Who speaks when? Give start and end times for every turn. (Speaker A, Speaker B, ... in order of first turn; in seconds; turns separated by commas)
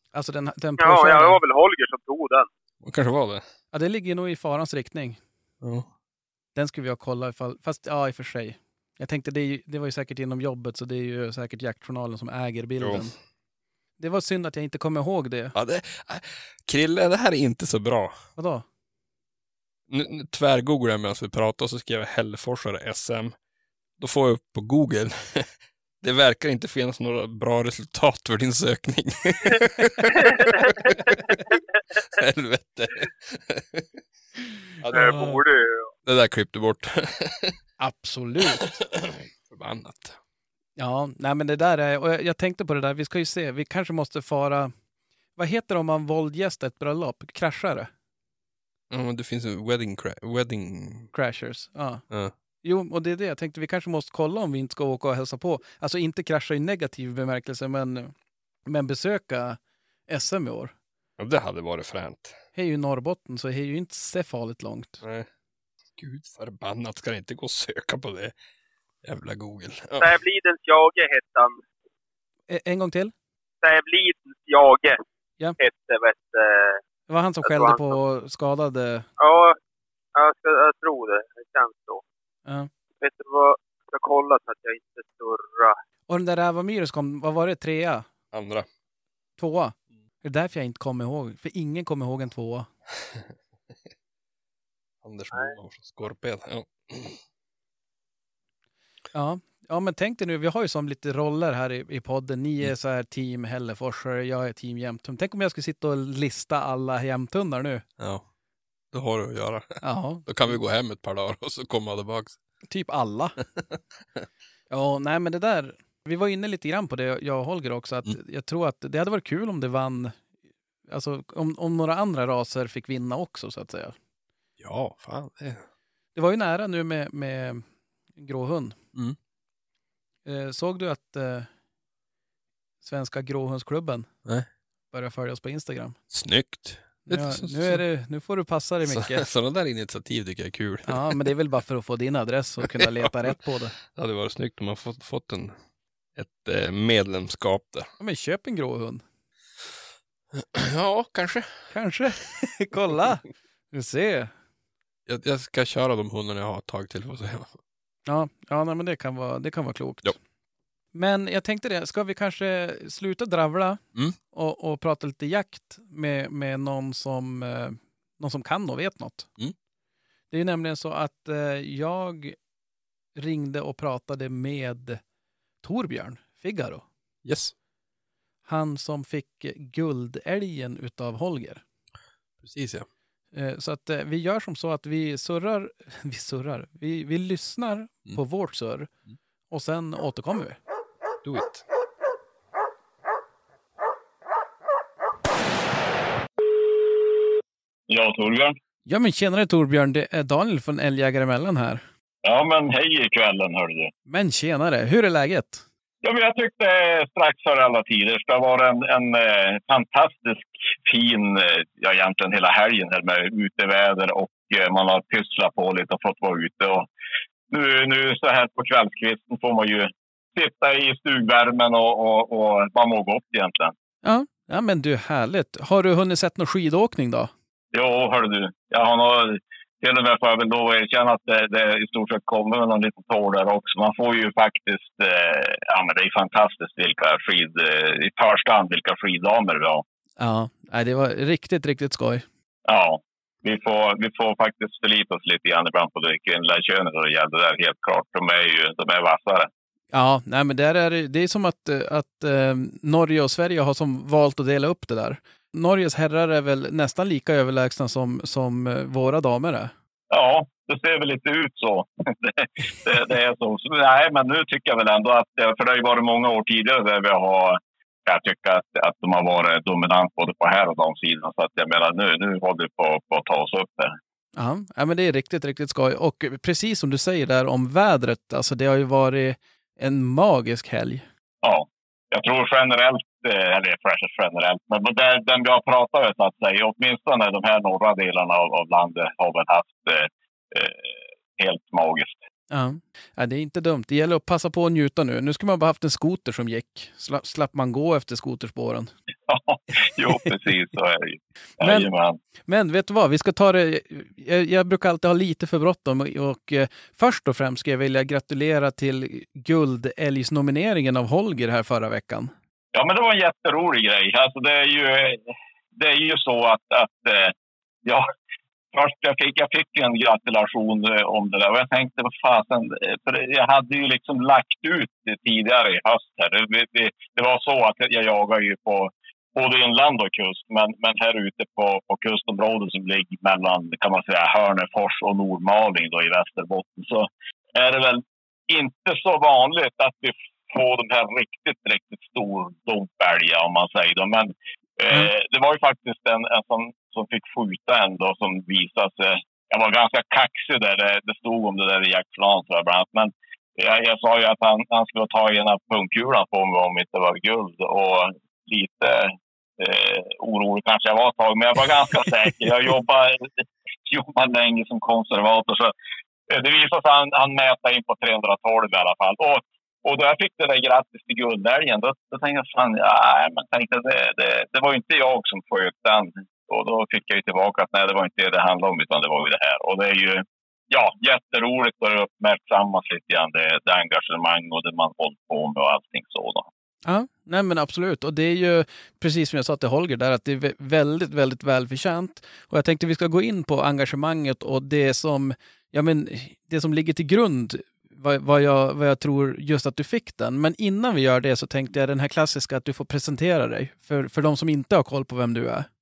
Speaker A: 0.1-1.4, Speaker B: 0.8-2.5, Speaker C: 2.8-3.4, Speaker A: 3.7-5.2, Speaker C: 5.6-5.9, Speaker A: 6.5-13.2, Speaker C: 12.8-13.1, Speaker A: 14.0-15.6, Speaker C: 15.6-18.2, Speaker A: 18.4-18.6, Speaker C: 19.9-23.4, Speaker C: 24.0-30.9, Speaker B: 30.2-31.6, Speaker C: 32.1-33.9, Speaker C: 34.8-35.3, Speaker B: 34.9-35.9, Speaker C: 36.1-37.6, Speaker A: 37.8-38.7, Speaker C: 38.8-40.2, Speaker A: 40.8-44.7, Speaker A: 45.4-47.9, Speaker C: 48.9-51.1, Speaker A: 51.1-52.1, Speaker A: 52.6-58.1, Speaker A: 58.7-60.8, Speaker C: 61.2-62.4, Speaker A: 62.5-65.0, Speaker C: 65.0-65.3, Speaker C: 66.0-68.4, Speaker C: 69.0-70.1, Speaker B: 70.0-71.6, Speaker A: 72.5-73.1, Speaker B: 73.6-75.0, Speaker B: 75.6-76.8, Speaker A: 77.1-79.1, Speaker B: 77.5-78.0, Speaker B: 79.2-79.6, Speaker B: 80.2-82.0, Speaker B: 83.0-85.8, Speaker A: 86.1-88.1, Speaker C: 88.3-88.7, Speaker A: 89.4-92.7, Speaker C: 95.0-97.2, Speaker A: 99.1-107.9, Speaker C: 108.9-112.4, Speaker A: 109.8-110.3, Speaker A: 112.7-113.4, Speaker A: 114.7-120.2, Speaker A: 120.9-124.0, Speaker C: 124.6-125.6, Speaker A: 126.2-127.6, Speaker A: 128.2-128.8, Speaker A: 130.2-131.5, Speaker A: 132.8-134.1, Speaker A: 134.9-136.0, Speaker C: 136.1-137.8, Speaker A: 137.1-139.3, Speaker C: 138.8-141.2, Speaker A: 140.9-143.8, Speaker C: 143.9-145.6, Speaker C: 146.2-147.9, Speaker A: 148.0-149.0, Speaker C: 150.3-151.7, Speaker A: 151.7-154.3, Speaker C: 155.1-157.5, Speaker A: 158.1-160.1, Speaker A: 160.9-169.3, Speaker A: 170.3-172.4, Speaker A: 173.2-175.0, Speaker A: 175.6-176.8, Speaker C: 177.2-177.6, Speaker A: 178.5-181.6, Speaker C: 182.4-182.9, Speaker A: 183.3-188.9, Speaker A: 189.5-190.6, Speaker C: 191.2-191.7, Speaker D: 197.9-198.6, Speaker A: 198.9-201.8, Speaker D: 202.2-203.9, Speaker A: 204.1-205.7, Speaker D: 206.0-216.9, Speaker D: 217.5-223.7, Speaker A: 224.0-227.3, Speaker D: 227.7-239.8, Speaker A: 240.2-242.2, Speaker D: 242.7-249.5, Speaker A: 249.9-259.7, Speaker D: 260.1-274.0, Speaker A: 274.4-281.1, Speaker D: 281.4-292.2, Speaker A: 292.5-298.9, Speaker D: 299.3-302.2, Speaker A: 301.6-301.9, Speaker A: 302.5-312.3, Speaker D: 312.7-317.3, Speaker D: 318.7-365.7, Speaker D: 366.3-386.5, Speaker A: 386.9-405.7